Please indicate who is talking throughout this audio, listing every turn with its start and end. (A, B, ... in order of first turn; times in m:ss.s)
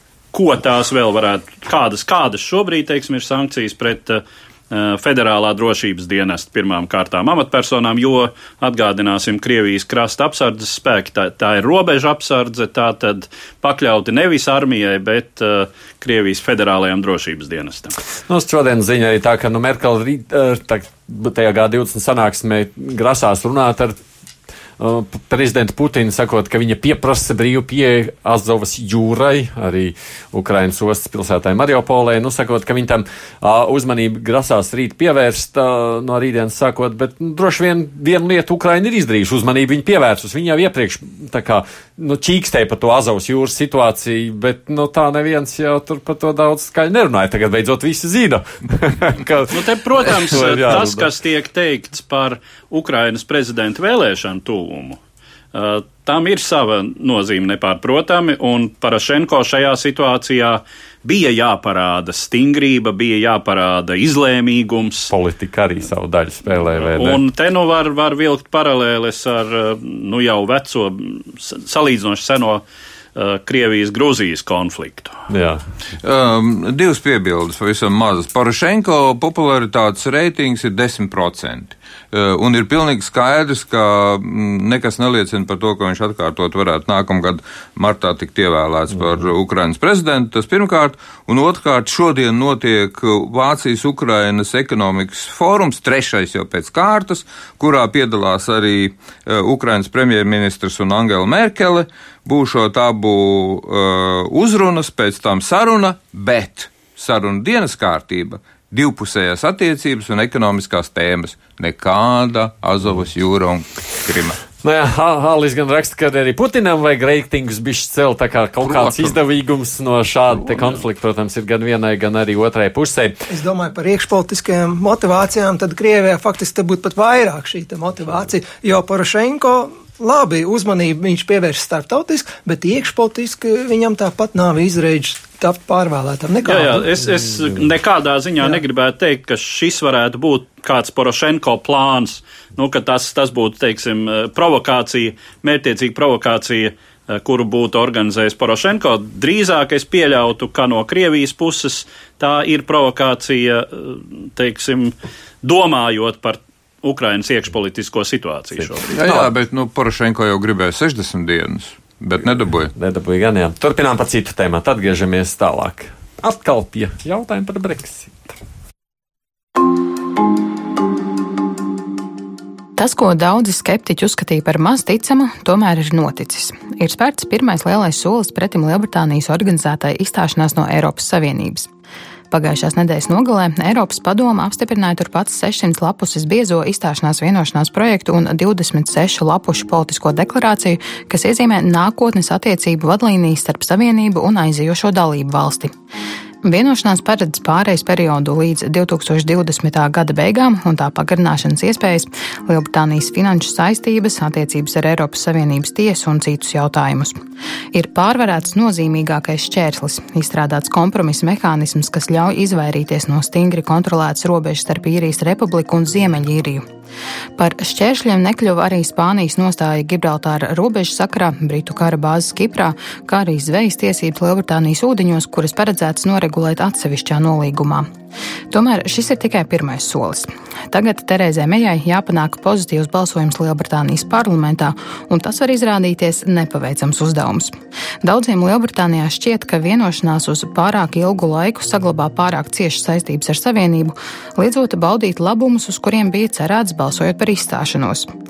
0:00.3-0:18.0 A
0:18.3-0:24.0 B
0:24.8-0:51.1 B
0:49.5-0:55.0 A
0:55.5-1:05.1 A
1:05.1-1:07.2 B
1:06.8-1:12.6 A
1:13.2-1:15.1 A
1:15.3-1:15.6 B
1:16.0-1:54.4 C
1:54.6-2:03.2 B
1:58.7-1:59.2 C
2:03.3-2:16.9 D
2:16.5-2:38.9 A
2:38.9-2:42.7 C
2:42.8-2:48.4 B
2:52.8-3:01.7 E
3:02.3-3:15.7 E
3:16.4-3:27.2 E
3:27.7-3:36.6 E
3:37.4-3:47.9 E
3:48.5-4:08.1 E